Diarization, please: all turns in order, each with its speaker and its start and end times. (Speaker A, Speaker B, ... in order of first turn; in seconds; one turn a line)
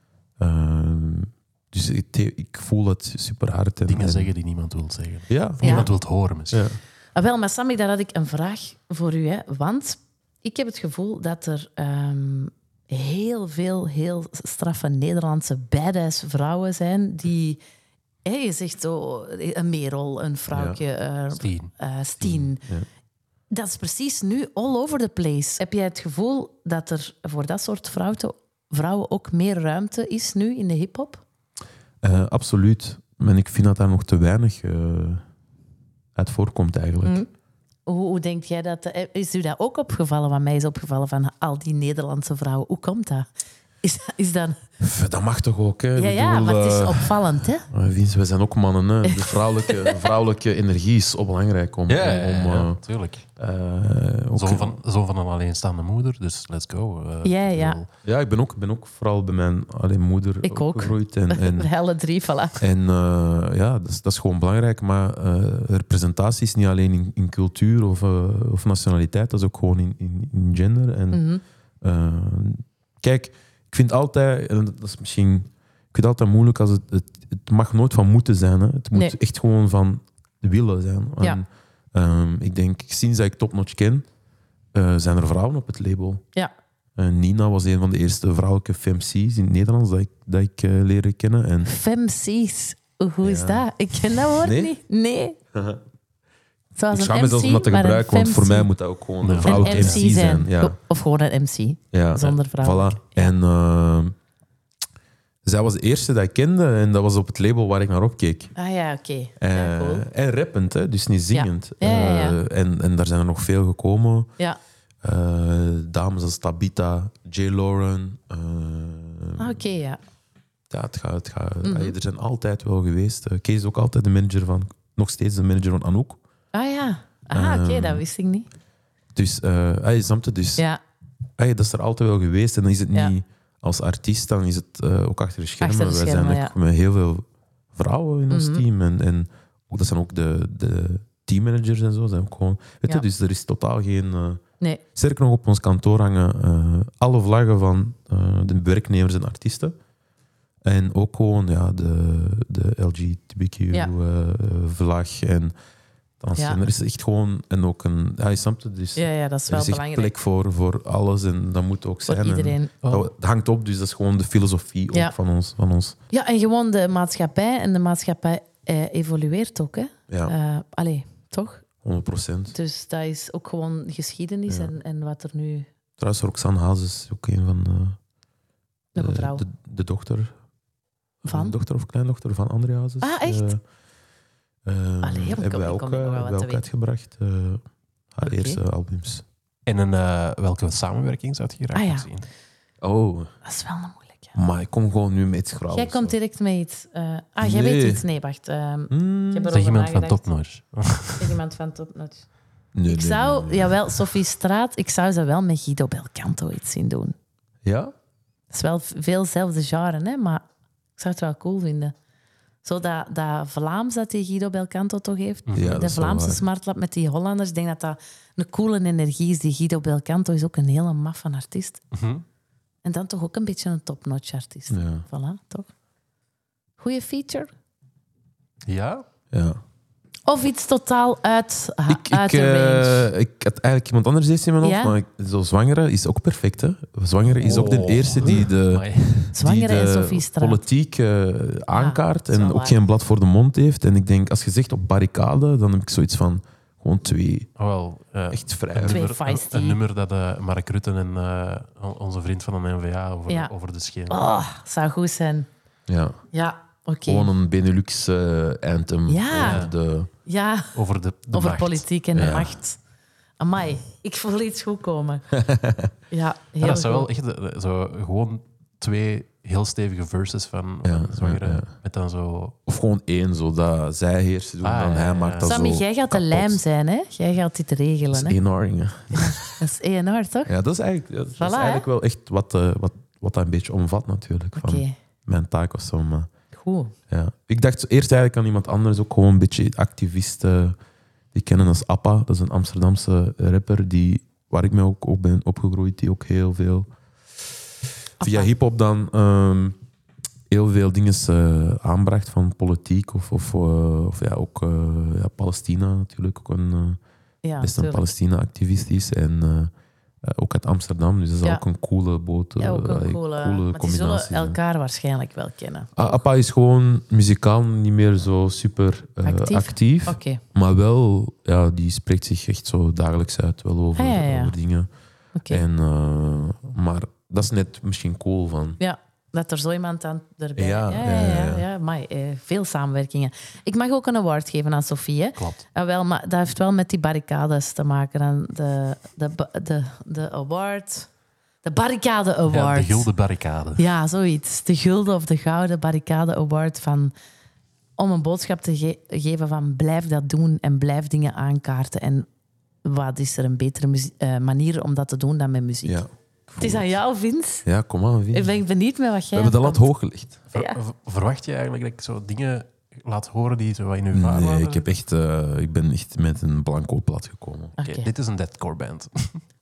Speaker A: 0.4-4.3
Speaker B: 3.9-6.7
Speaker A: 5.3-5.9
Speaker C: 5.6-5.9
Speaker A: 6.5-6.8
Speaker C: 7.2-17.6
Speaker C: 18.2-22.6
Speaker A: 20.5-20.8
Speaker B: 21.3-21.7
Speaker A: 22.2-22.9
Speaker C: 23.5-31.2
Speaker A: 32.0-35.2
Speaker A: 36.1-37.2
Speaker C: 37.0-37.3
Speaker C: 37.9-43.3
Speaker C: 43.8-44.6
Speaker A: 44.8-47.2
Speaker C: 46.0-47.7
Speaker A: 47.7-52.8
Speaker C: 49.0-50.1
Speaker B: 51.9-53.2
Speaker A: 53.4-54.8
Speaker B: 54.4-57.9
Speaker C: 57.2-57.8
Speaker A: 58.0-61.7
Speaker C: 60.4-62.6
Speaker A: 62.6-71.2
Speaker C: 71.1-71.4
Speaker A: 71.8-84.0
Speaker A: 84.7-86.2
Speaker A: 87.0-91.7
Speaker C: 91.6-95.4
Speaker A: 93.2-93.7
Speaker A: 94.3-94.7
Speaker A: 95.5-95.8
Speaker C: 96.8-98.7
Speaker A: 96.9-100.8
Speaker B: 99.2-100.0
Speaker C: 99.4-103.3
Speaker A: 101.9-104.1
Speaker A: 105.4-108.5
Speaker C: 108.5-110.0
Speaker A: 109.4-114.3
Speaker C: 111.3-112.4
Speaker A: 115.0-119.6
Speaker C: 119.4-120.0
Speaker A: 120.7-126.2
Speaker C: 121.6-121.9
Speaker C: 126.5-128.5
Speaker A: 127.3-128.0
Speaker A: 129.1-130.6
Speaker A: 131.4-144.4
Speaker C: 135.6-136.5
Speaker C: 138.3-138.6
Speaker A: 144.9-149.8
Speaker A: 150.6-155.5
Speaker A: 156.2-166.0
Speaker C: 158.9-160.1
Speaker C: 162.1-162.7
Speaker B: 162.8-163.1
Speaker C: 166.1-171.6
Speaker A: 170.1-170.3
Speaker A: 171.8-172.5
Speaker C: 172.5-175.7
Speaker A: 174.5-174.7
Speaker A: 176.0-178.0
Speaker C: 178.9-179.4
Speaker A: 179.0-180.3
Speaker A: 181.2-183.6
Speaker C: 181.3-181.5
Speaker C: 183.0-183.6
Speaker A: 184.7-187.6
Speaker C: 185.0-186.6
Speaker A: 188.1-189.2
Speaker C: 188.2-188.6
Speaker B: 189.7-192.3
Speaker C: 191.7-192.0
Speaker A: 192.8-193.3
Speaker C: 193.4-194.3
Speaker A: 194.3-196.1
Speaker C: 195.7-200.2
Speaker A: 197.4-198.0
Speaker A: 198.9-199.5
Speaker B: 199.5-201.3
Speaker C: 201.2-202.2
Speaker A: 202.7-203.8
Speaker C: 202.9-207.1
Speaker A: 207.6-207.9
Speaker C: 208.5-210.4
Speaker C: 211.0-211.9
Speaker C: 212.6-221.8
Speaker B: 215.5-215.8
Speaker A: 215.5-216.4
Speaker B: 221.9-222.2
Speaker C: 222.8-225.7
Speaker A: 224.7-225.0
Speaker C: 226.8-227.5
Speaker B: 228.7-229.0
Speaker A: 229.3-229.6
Speaker C: 230.3-233.1
Speaker A: 231.9-247.5
Speaker C: 234.6-234.9
Speaker B: 237.4-239.3
Speaker C: 239.3-240.6
Speaker C: 241.7-242.8
Speaker B: 247.6-254.2
Speaker A: 248.3-249.0
Speaker C: 248.8-249.8
Speaker C: 254.1-255.5
Speaker A: 255.9-256.2
Speaker C: 256.3-257.3
Speaker A: 257.1-260.1
Speaker C: 259.1-259.7
Speaker B: 259.4-259.7
Speaker C: 260.2-260.7
Speaker B: 260.7-261.9
Speaker C: 261.3-262.8
Speaker A: 262.1-262.6
Speaker C: 263.4-265.2
Speaker A: 265.3-265.9
Speaker C: 266.1-267.1
Speaker B: 266.6-272.6
Speaker A: 270.8-271.7
Speaker A: 272.7-276.6
Speaker B: 274.6-275.5
Speaker C: 275.4-278.4
Speaker A: 278.1-279.6
Speaker C: 279.1-280.5
Speaker A: 280.4-286.3
Speaker C: 281.4-281.9
Speaker C: 284.6-284.9
Speaker C: 286.5-286.9
Speaker A: 287.1-290.8
Speaker A: 291.3-296.9
Speaker A: 298.2-299.8
Speaker C: 298.2-298.5
Speaker A: 300.5-307.0
Speaker C: 307.4-308.0
Speaker A: 307.6-309.7
Speaker A: 310.2-314.6
Speaker C: 312.6-315.9
Speaker A: 315.9-324.9
Speaker C: 319.2-320.4
Speaker C: 323.9-324.5
Speaker C: 325.4-325.6
Speaker A: 325.5-328.8
Speaker C: 328.8-341.1
Speaker A: 330.6-331.6
Speaker B: 335.4-335.6
Speaker C: 341.6-343.1
Speaker B: 342.5-343.8
Speaker C: 343.8-347.1
Speaker C: 348.0-352.3
Speaker C: 352.8-356.0
Speaker A: 355.8-356.9
Speaker C: 356.6-357.6
Speaker A: 357.6-358.5
Speaker C: 358.3-359.8
Speaker A: 359.3-360.4
Speaker B: 360.5-364.8
Speaker A: 364.1-367.8
Speaker C: 367.8-368.1
Speaker B: 367.8-369.4